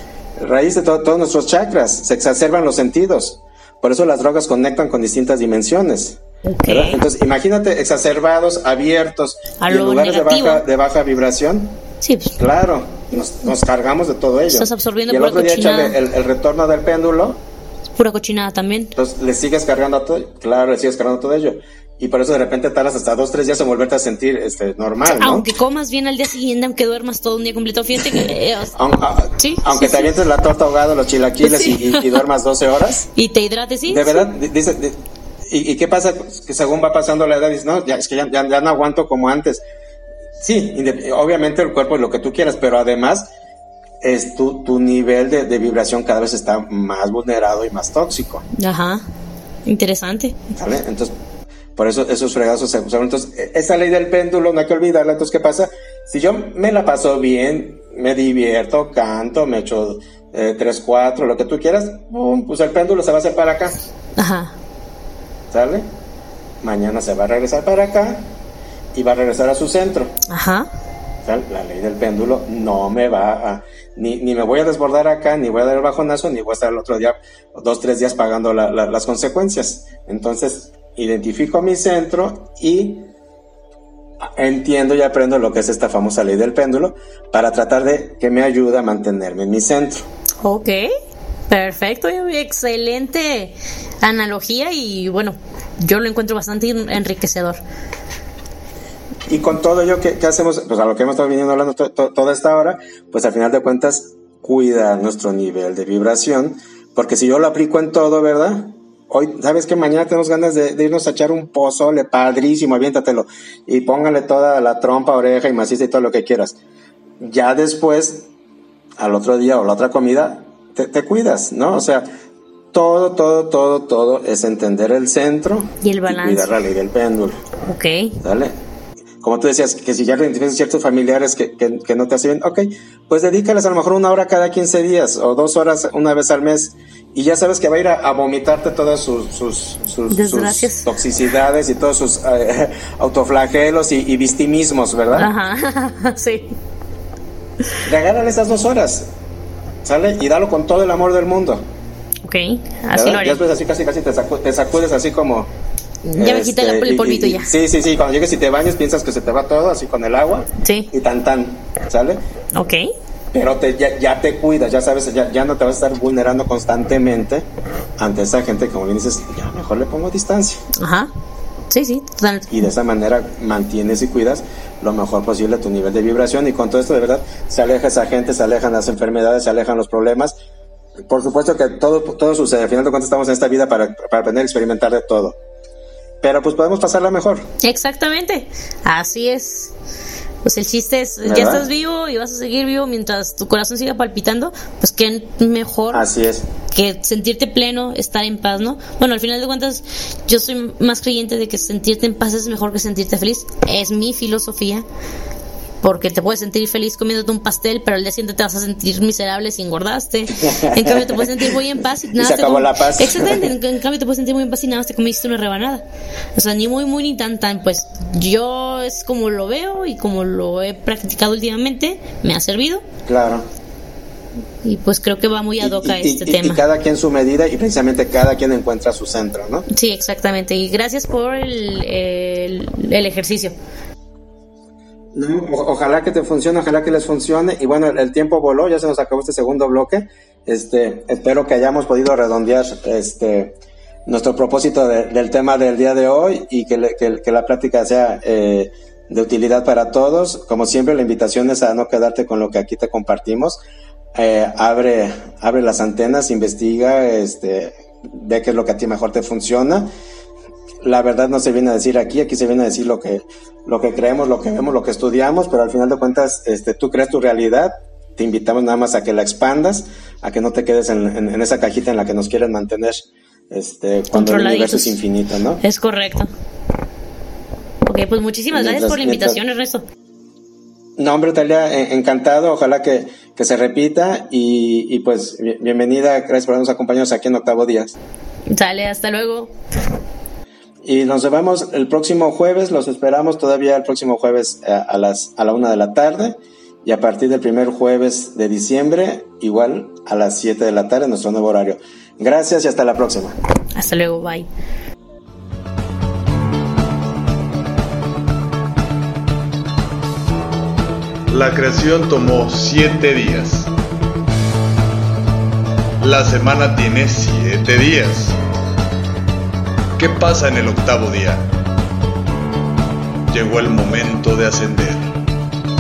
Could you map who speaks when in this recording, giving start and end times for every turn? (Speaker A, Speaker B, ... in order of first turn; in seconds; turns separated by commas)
Speaker A: 0.4-11.8, Speaker B: 6.5-7.0, Speaker B: 9.6-10.6, Speaker B: 12.0-12.4, Speaker A: 12.4-17.4, Speaker B: 14.5-16.0, Speaker B: 18.0-18.9, Speaker A: 19.0-25.5, Speaker B: 25.1-28.8, Speaker A: 28.0-33.1, Speaker B: 29.4-30.1, Speaker B: 31.4-32.2, Speaker B: 33.1-34.3, Speaker A: 33.9-39.6, Speaker A: 40.4-43.3, Speaker A: 44.0-48.5, Speaker B: 48.5-49.0, Speaker B: 49.6-50.4, Speaker A: 50.5-51.1, Speaker A: 51.8-63.8, Speaker B: 64.2-64.6, Speaker A: 65.5-65.9, Speaker A: 66.6-68.3, Speaker A: 68.9-70.2, Speaker B: 70.3-70.7, Speaker A: 71.2-83.1, Speaker A: 84.2-90.1, Speaker B: 90.4-90.9, Speaker B: 91.5-97.6, Speaker A: 99.3-116.6, Speaker A: 117.2-118.3, Speaker A: 119.0-122.1, Speaker A: 122.7-127.4, Speaker B: 125.8-126.5, Speaker B: 127.6-128.2, Speaker A: 128.2-128.5, Speaker A: 129.2-145.3, Speaker B: 140.1-140.9, Speaker B: 145.1-146.6, Speaker A: 147.8-149.1, Speaker A: 149.8-151.7, Speaker B: 152.2-153.4, Speaker A: 152.9-155.5, Speaker B: 156.1-157.5, Speaker A: 156.2-162.2, Speaker B: 160.6-160.9, Speaker B: 162.6-162.9, Speaker A: 163.3-167.5, Speaker A: 168.0-170.6, Speaker B: 170.8-171.1, Speaker B: 171.7-172.5, Speaker A: 172.5-180.4, Speaker A: 181.1-185.4, Speaker A: 186.2-187.5, Speaker B: 187.6-189.7, Speaker B: 190.4-196.1, Speaker A: 191.2-191.7, Speaker A: 195.9-196.5, Speaker B: 196.7-204.8, Speaker B: 205.8-215.8, Speaker A: 210.4-211.6, Speaker A: 212.2-213.5, Speaker B: 216.4-222.8, Speaker A: 223.1-223.5, Speaker B: 224.6-226.6, Speaker A: 225.6-229.7, Speaker B: 229.7-233.6, Speaker A: 235.2-253.6, Speaker A: 254.2-259.9, Speaker A: 260.8-275.6, Speaker B: 274.1-275.0, Speaker B: 275.6-276.3, Speaker B: 277.9-279.9, Speaker A: 278.5-279.4, Speaker A: 281.0-288.0, Speaker B: 288.5-289.5, Speaker A: 290.9-303.4, Speaker B: 303.8-304.5, Speaker C: 311.3-313.7, Speaker C: 316.0-318.4, Speaker C: 320.0-321.5, Speaker C: 323.3-325.2